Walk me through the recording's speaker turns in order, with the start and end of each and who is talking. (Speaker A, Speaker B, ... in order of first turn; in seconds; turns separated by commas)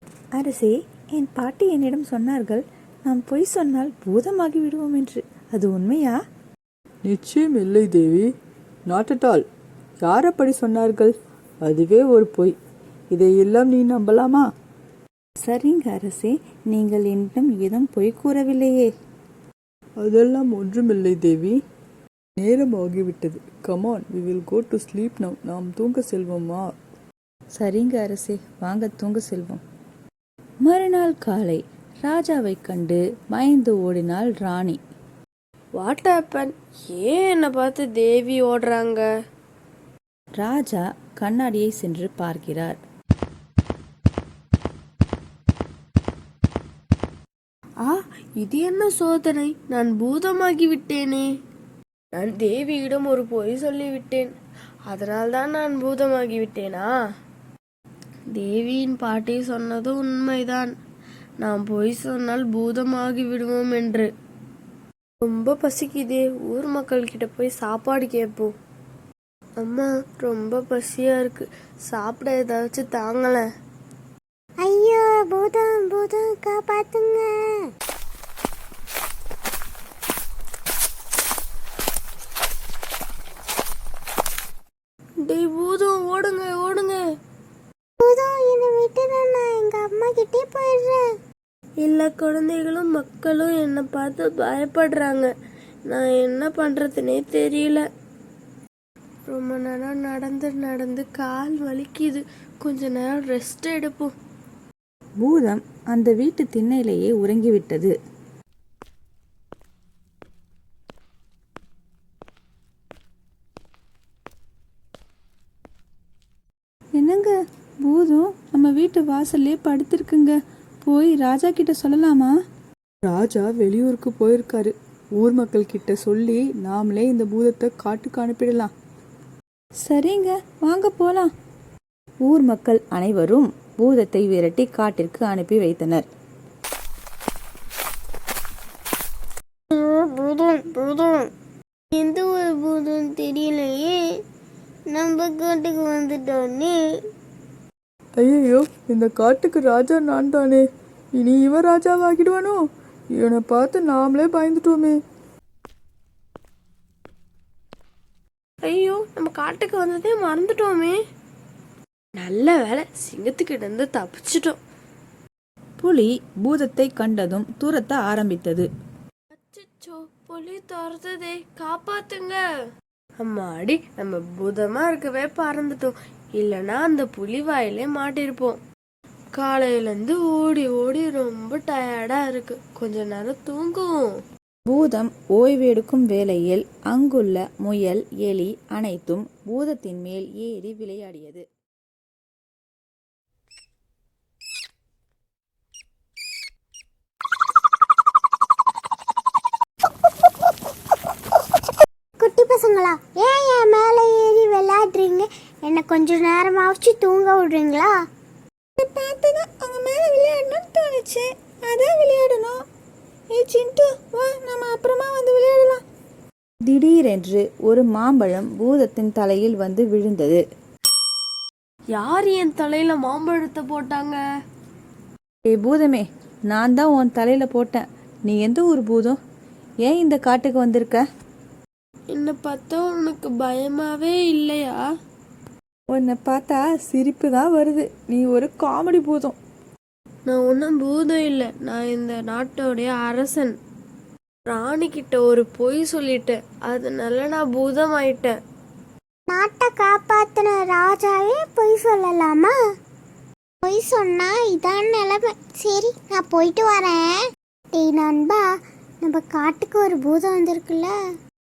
Speaker A: 0.3-6.2, Speaker B: 7.0-8.3, Speaker B: 8.9-9.4, Speaker B: 10.0-11.1, Speaker B: 11.6-12.6, Speaker B: 13.1-14.4, Speaker A: 15.4-18.9, Speaker B: 20.0-21.6, Speaker B: 22.4-26.7, Speaker A: 27.5-29.6, Speaker A: 30.6-34.8, Speaker C: 35.8-39.0, Speaker A: 40.4-42.8, Speaker C: 47.8-51.3, Speaker C: 52.1-54.3, Speaker C: 54.9-56.9, Speaker C: 58.3-60.7, Speaker C: 61.4-64.1, Speaker C: 65.2-68.5, Speaker C: 69.6-73.5, Speaker D: 74.6-77.7, Speaker C: 85.2-87.0, Speaker D: 88.0-91.0, Speaker C: 91.8-95.3, Speaker C: 95.9-97.8, Speaker C: 99.3-104.1, Speaker A: 105.2-107.9, Speaker A: 116.9-122.3, Speaker A: 123.1-128.7, Speaker A: 129.8-131.3, Speaker A: 132.2-136.1, Speaker D: 139.7-141.2, Speaker D: 141.9-144.0, Speaker D: 144.9-146.8, Speaker B: 148.2-150.6, Speaker B: 151.2-152.6, Speaker B: 153.2-154.9, Speaker C: 158.6-161.0, Speaker C: 162.2-164.6, Speaker A: 165.8-168.7, Speaker C: 169.3-172.4, Speaker C: 173.2-178.6, Speaker C: 179.3-184.0, Speaker A: 184.7-191.4, Speaker D: 202.2-207.9, Speaker A: 208.8-212.6, Speaker A: 213.3-215.8, Speaker A: 216.6-220.4, Speaker C: 221.9-224.2, Speaker A: 225.4-229.2, Speaker A: 229.8-231.1, Speaker C: 232.1-234.8, Speaker A: 235.9-239.4, Speaker C: 240.2-243.6, Speaker C: 244.5-248.4, Speaker D: 249.3-252.5, Speaker D: 253.6-258.5, Speaker D: 259.0-260.9